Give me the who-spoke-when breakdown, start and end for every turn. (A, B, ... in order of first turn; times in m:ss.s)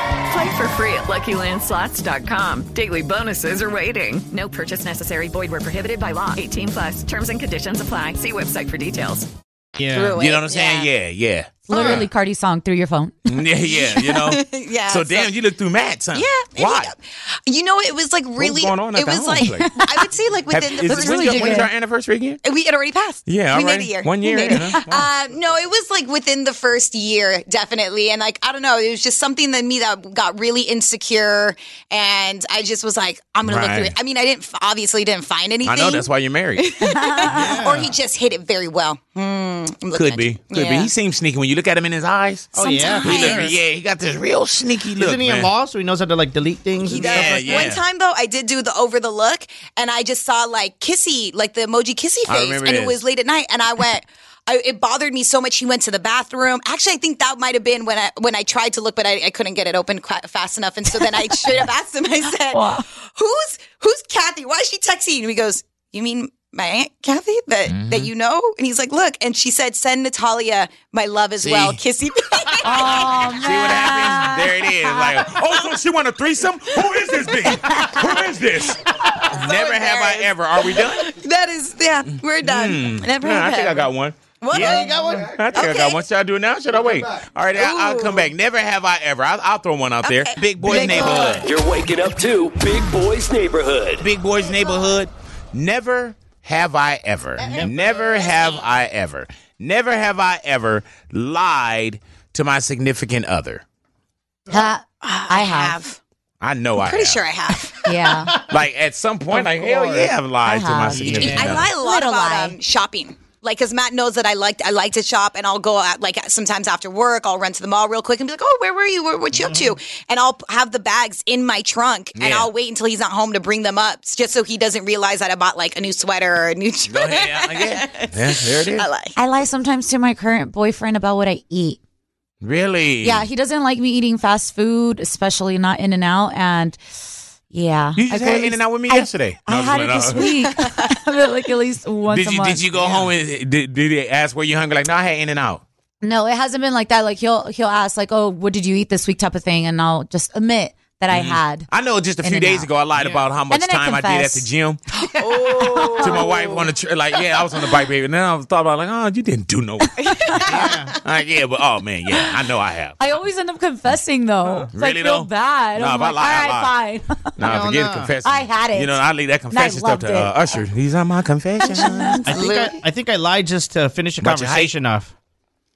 0:00.3-0:09.3 A
0:09.8-0:10.2 B
0:09.9-0:10.9 C
0:10.2-0:12.1 D
0:11.7-0:13.1 E
0:11.7-0:12.1 B
0:13.2-0:16.9 D
0:13.7-0:15.3 C
0:16.1-0:21.7 C
0:18.4-0:19.7 D
0:19.5-0:20.0 E
0:20.5-0:22.4 D
0:20.9-0:21.7 E
0:22.4-0:36.1 C
0:23.2-0:25.0 D
0:24.3-0:24.8 E
0:33.4-0:33.9 D
0:35.6-0:36.7 D
0:36.6-0:40.9 C
0:36.8-0:37.6 E
0:37.3-0:37.9 B
0:39.9-0:45.5 D
0:42.5-0:43.5 B
0:42.6-0:43.5 E
0:45.0-0:47.7 B
0:46.8-1:13.3 C
0:46.9-0:47.8 D
0:52.3-0:53.0 D
1:00.9-1:01.2 E
1:02.3-1:02.8 E
1:07.7-1:08.1 D
1:11.4-1:11.8 D
1:12.6-1:15.2 E
1:13.4-1:21.1 D
1:17.7-1:18.1 E
1:19.2-1:26.0 C
1:22.4-1:24.2 D
1:24.5-1:25.4 B
1:25.3-1:31.5 D
1:27.5-1:28.3 C
1:30.0-1:31.5 C
1:30.9-1:34.0 F
1:34.0-1:43.6 D
1:37.9-1:38.5 C
1:44.5-1:45.8 E
1:44.9-1:46.0 C
1:46.4-1:47.2 D
1:46.8-1:47.8 C
1:47.8-1:48.4 E
1:48.5-1:51.7 D
1:49.3-1:50.1 B
1:50.4-1:52.6 E
1:50.9-1:51.5 B
1:51.3-2:09.1 C
1:59.3-1:59.8 B
2:02.1-2:02.5 D
2:06.9-2:08.9 D
2:09.2-2:11.8 E
2:12.4-2:13.3 D
2:13.0-2:16.8 E
2:17.5-2:22.6 E
2:17.9-2:20.3 D
2:22.1-2:25.6 D
2:26.0-2:31.7 E
2:31.1-2:34.8 D
2:32.2-2:32.7 E
2:33.0-2:33.2 B
2:33.5-2:34.5 E
2:35.2-2:36.6 C
2:35.2-2:36.4 E
2:36.0-2:40.5 D
2:40.0-2:40.5 C
2:40.5-2:40.9 B
2:41.0-2:43.0 D
2:43.0-2:47.2 E
2:44.7-2:46.7 D
2:47.4-2:52.4 D
2:47.4-2:48.1 B
2:48.2-2:50.3 E
2:51.6-2:52.7 E
2:52.2-2:55.1 B
2:54.2-2:54.7 D